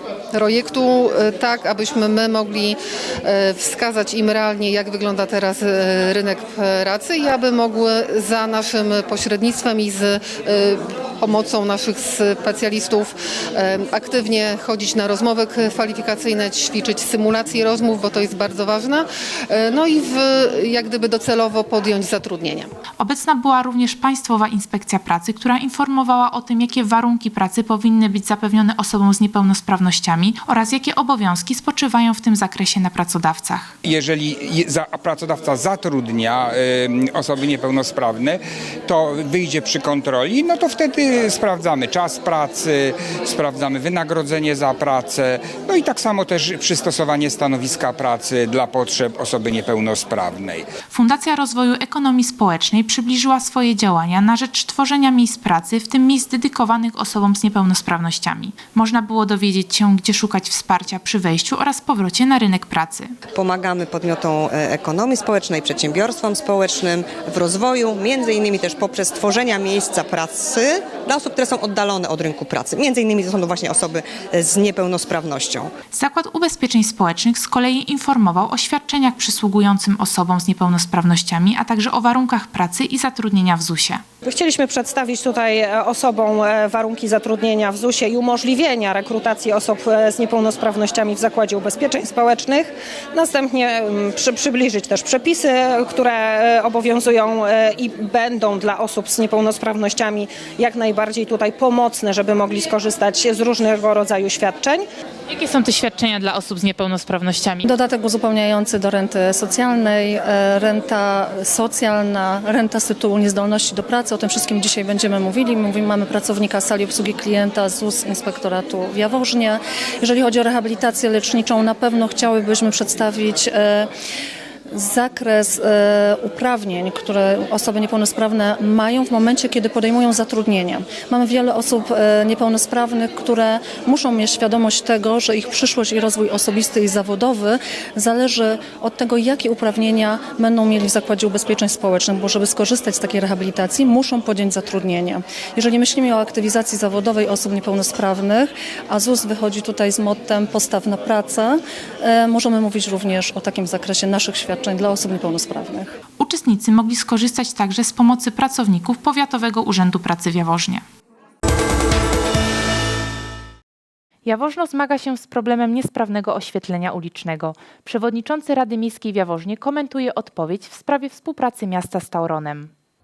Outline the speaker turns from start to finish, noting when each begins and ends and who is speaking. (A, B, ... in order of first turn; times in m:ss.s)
0:00.3-0:22.7 A
0:23.0-0:33.7 B
0:33.8-0:50.7 C
0:50.9-1:03.1 B
1:03.3-1:15.7 D
1:15.9-1:24.0 B
1:24.2-1:44.9 E
1:45.3-1:47.7 B
1:47.6-2:03.9 F
2:04.7-2:35.9 F
2:36.2-2:40.8 B
2:44.2-2:52.7 B